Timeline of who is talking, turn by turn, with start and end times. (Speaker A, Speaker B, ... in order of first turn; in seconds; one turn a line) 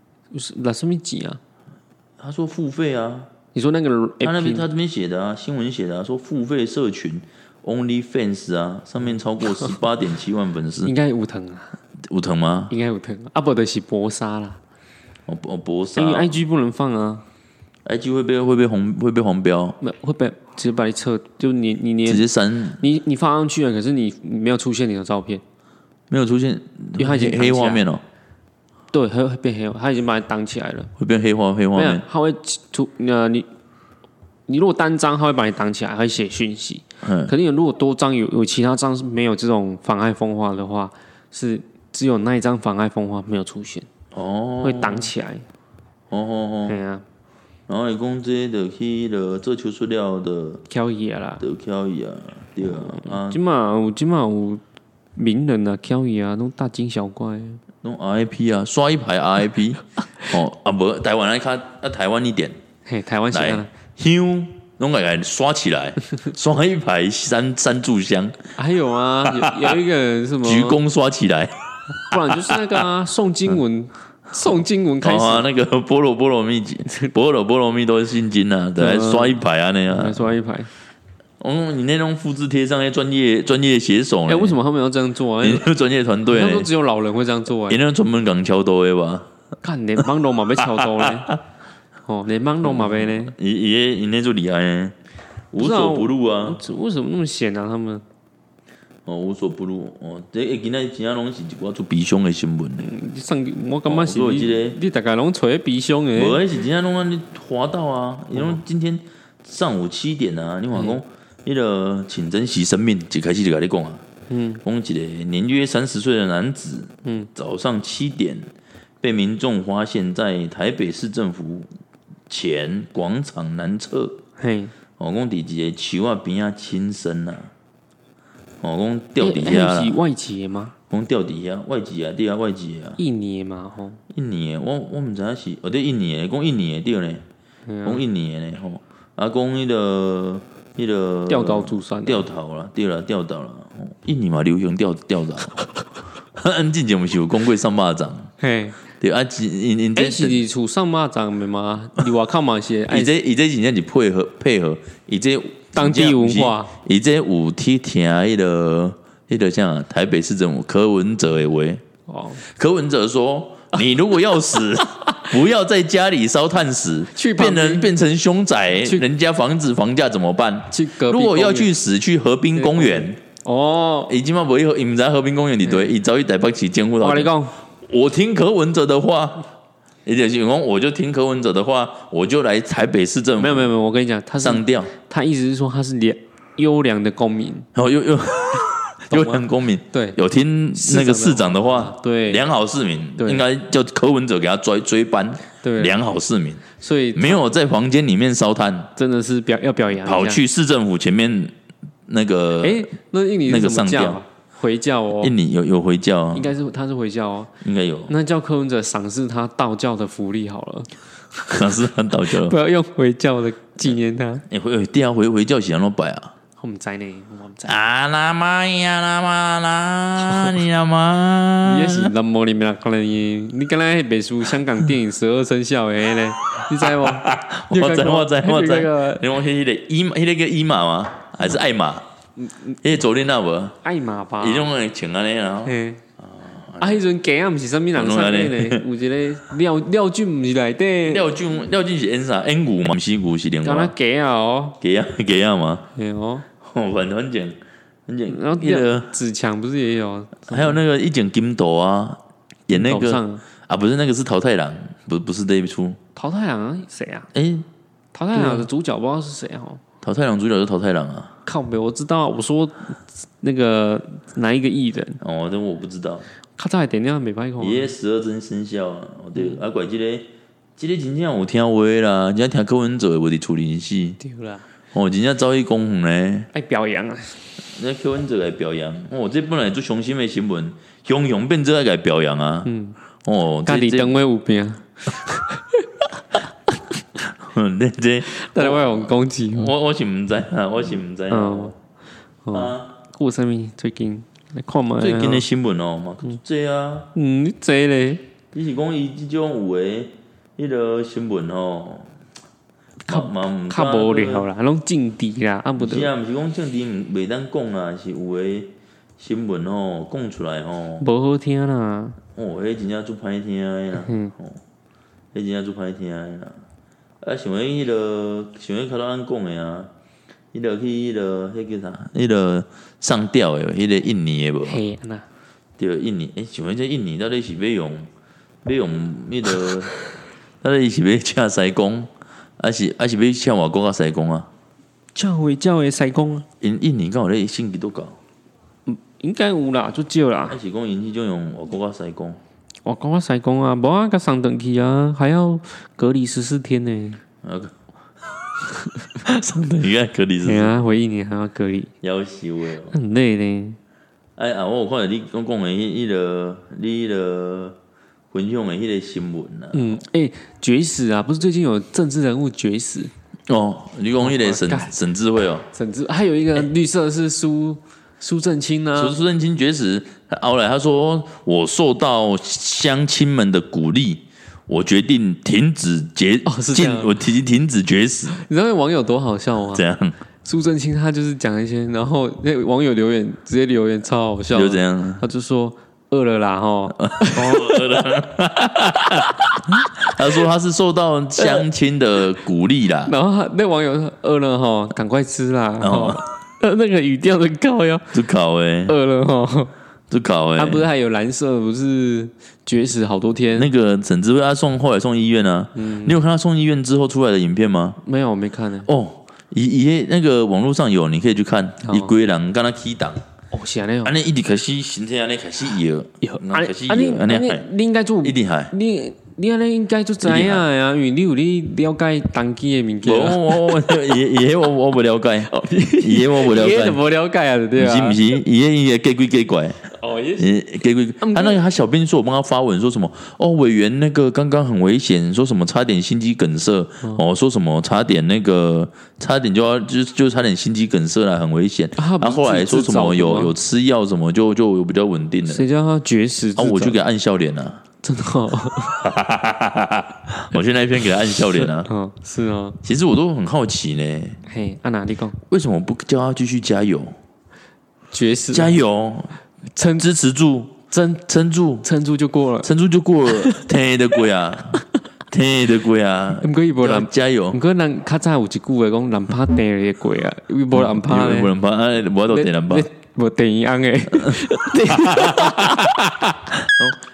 Speaker A: 0.3-1.4
Speaker B: 2.2-3.3
Speaker A: 3.5-4.7
Speaker B: 4.2-10.9
Speaker A: 10.8-11.8
Speaker B: 12.1-12.7
Speaker A: 12.7-14.6
Speaker B: 15.3-16.4
Speaker A: 16.0-17.2
Speaker B: 17.9-19.8
Speaker A: 19.8-22.3
Speaker B: 22.1-22.8
Speaker A: 22.8-25.4
Speaker B: 26.1-28.0
Speaker A: 27.0-27.9
Speaker A: 28.9-30.9
Speaker B: 31.0-32.0
Speaker A: 31.8-33.5
Speaker A: 34.5-43.9
Speaker B: 37.0-37.3
Speaker B: 44.1-45.1
Speaker A: 44.6-45.5
Speaker B: 46.1-46.8
Speaker A: 46.7-47.0
Speaker B: 47.7-50.6
Speaker A: 50.7-51.4
Speaker B: 51.4-53.4
Speaker A: 52.6-54.6
Speaker A: 55.2-57.6
Speaker B: 57.8-62.6
Speaker A: 62.9-63.7
Speaker B: 63.3-68.4
Speaker A: 68.6-70.8
Speaker B: 69.2-69.8
Speaker B: 70.4-72.8
Speaker A: 72.1-75.5
Speaker B: 75.0-80.3
Speaker A: 76.9-77.1
Speaker A: 78.8-80.7
Speaker B: 81.4-84.6
Speaker A: 84.3-85.7
Speaker B: 85.4-86.7
Speaker A: 86.3-87.8
Speaker B: 87.7-89.3
Speaker A: 89.6-91.3
Speaker B: 90.7-91.4
Speaker A: 92.1-93.3
Speaker B: 92.6-95.0
Speaker B: 95.5-96.6
Speaker A: 95.6-98.0
Speaker B: 99.1-102.9
Speaker A: 102.8-106.4
Speaker B: 103.9-104.8
Speaker B: 106.2-114.0
Speaker A: 108.3-108.6
Speaker A: 110.7-111.0
Speaker A: 114.3-114.6
Speaker B: 114.6-118.5
Speaker A: 117.0-117.3
Speaker B: 119.0-121.7
Speaker B: 122.3-124.2
Speaker A: 124.4-124.7
Speaker B: 125.0-127.5
Speaker B: 128.6-130.0
Speaker A: 129.2-130.8
Speaker B: 130.9-133.0
Speaker A: 133.0-134.0
Speaker B: 134.1-137.2
Speaker A: 137.7-138.0
Speaker B: 137.8-145.6
Speaker A: 141.3-142.3
Speaker B: 146.4-148.3
Speaker A: 148.4-148.8
Speaker B: 149.0-150.4
Speaker A: 149.9-153.1
Speaker B: 152.9-161.8
Speaker A: 155.8-156.7
Speaker A: 162.1-162.4
Speaker B: 162.4-173.2
Speaker A: 164.6-165.2
Speaker A: 167.1-167.9
Speaker A: 168.8-169.1
Speaker A: 170.7-171.7
Speaker A: 172.6-174.1
Speaker B: 174.1-179.5
Speaker A: 175.6-175.9
Speaker A: 177.0-177.6
Speaker B: 180.1-183.7
Speaker A: 183.4-187.7
Speaker B: 184.4-184.9
Speaker B: 187.8-198.9
Speaker A: 189.1-190.2
Speaker A: 190.8-192.4
Speaker A: 193.2-193.4
Speaker A: 195.6-196.0
Speaker A: 196.7-197.4
Speaker A: 199.0-200.4
Speaker B: 200.0-201.5
Speaker B: 202.1-202.9
Speaker A: 202.6-205.3
Speaker B: 203.5-204.2
Speaker B: 205.2-206.5
Speaker A: 206.3-207.5
Speaker B: 207.6-208.2
Speaker A: 208.1-214.5
Speaker B: 211.5-212.6
Speaker B: 214.5-216.3
Speaker A: 216.6-217.8
Speaker B: 217.6-222.1
Speaker A: 220.3-220.6
Speaker A: 221.6-229.3
Speaker B: 226.5-232.1
Speaker A: 232.4-232.8
Speaker B: 232.8-233.8
Speaker A: 233.8-234.7
Speaker B: 234.4-237.0
Speaker A: 235.7-236.0
Speaker A: 236.8-241.3
Speaker B: 237.9-238.8
Speaker B: 241.1-243.9
Speaker A: 243.6-244.8
Speaker B: 244.8-245.9
Speaker A: 246.0-246.5
Speaker B: 246.6-249.1
Speaker A: 248.3-250.8
Speaker B: 250.5-256.0
Speaker A: 252.7-253.4
Speaker A: 256.1-257.3
Speaker B: 257.3-257.7
Speaker A: 258.1-259.8
Speaker B: 258.3-258.7
Speaker B: 260.0-261.3
Speaker A: 261.4-265.2
Speaker B: 265.2-266.3
Speaker A: 266.6-267.9
Speaker B: 267.6-274.2
Speaker A: 269.4-269.6
Speaker A: 274.2-274.6
Speaker B: 274.9-276.5
Speaker A: 276.5-277.5
Speaker B: 277.7-282.7
Speaker A: 282.7-283.0
Speaker B: 283.2-284.1
Speaker A: 283.7-285.9
Speaker B: 287.2-291.8
Speaker A: 288.3-289.7
Speaker A: 291.3-291.7
Speaker A: 292.4-295.5
Speaker B: 292.5-292.9
Speaker B: 295.0-297.1
Speaker A: 297.1-298.2
Speaker B: 298.5-302.1
Speaker A: 303.1-306.1
Speaker B: 303.1-304.5
Speaker B: 305.8-311.1
Speaker A: 311.0-312.2
Speaker B: 312.4-314.6
Speaker A: 314.1-314.3
Speaker B: 315.3-316.6
Speaker B: 317.2-319.9
Speaker B: 320.5-324.8
Speaker A: 324.7-325.3
Speaker B: 325.8-328.1
Speaker B: 328.6-330.0
Speaker B: 330.6-334.5
Speaker A: 335.1-336.5
Speaker B: 336.6-338.2
Speaker A: 338.9-340.6
Speaker B: 340.5-342.4
Speaker A: 342.9-347.2
Speaker B: 347.4-347.8
Speaker B: 349.2-350.8
Speaker A: 350.4-351.9
Speaker B: 352.0-353.0
Speaker A: 352.9-353.8
Speaker B: 354.4-357.8
Speaker B: 358.3-360.0
Speaker A: 359.7-363.1
Speaker B: 363.5-365.7
Speaker A: 364.2-364.9
Speaker A: 365.7-369.2
Speaker B: 368.9-378.4
Speaker A: 376.4-377.1
Speaker A: 378.4-379.8
Speaker B: 379.7-380.2
Speaker A: 380.4-388.1
Speaker B: 384.5-385.2
Speaker B: 387.0-393.1
Speaker A: 389.2-389.8
Speaker A: 391.4-391.7
Speaker A: 393.1-398.1
Speaker B: 395.8-396.2
Speaker B: 398.1-398.9
Speaker A: 398.9-399.7
Speaker B: 400.1-400.9
Speaker A: 400.6-403.7
Speaker B: 403.5-408.0
Speaker A: 405.8-406.2
Speaker A: 408.0-408.9
Speaker B: 408.9-413.2
Speaker A: 411.9-412.1
Speaker A: 413.5-414.1
Speaker B: 414.0-417.7
Speaker A: 416.2-424.2
Speaker B: 418.2-418.7
Speaker B: 420.2-420.6
Speaker B: 423.0-427.0
Speaker A: 425.5-428.4
Speaker B: 427.8-445.6
Speaker A: 429.9-430.5
Speaker A: 431.2-431.6
Speaker A: 442.0-443.5
Speaker A: 445.5-447.0
Speaker B: 446.6-447.8
Speaker A: 448.0-449.0
Speaker B: 449.0-451.9
Speaker A: 451.5-452.8
Speaker B: 452.8-454.4
Speaker A: 454.5-455.4
Speaker B: 455.5-457.1
Speaker A: 458.1-458.8
Speaker B: 458.5-461.9
Speaker A: 459.8-460.1
Speaker A: 460.9-461.2
Speaker A: 461.8-462.7
Speaker B: 462.6-467.6
Speaker A: 463.2-463.7
Speaker A: 466.4-471.5
Speaker B: 470.7-472.9
Speaker A: 472.3-476.5
Speaker B: 474.2-477.0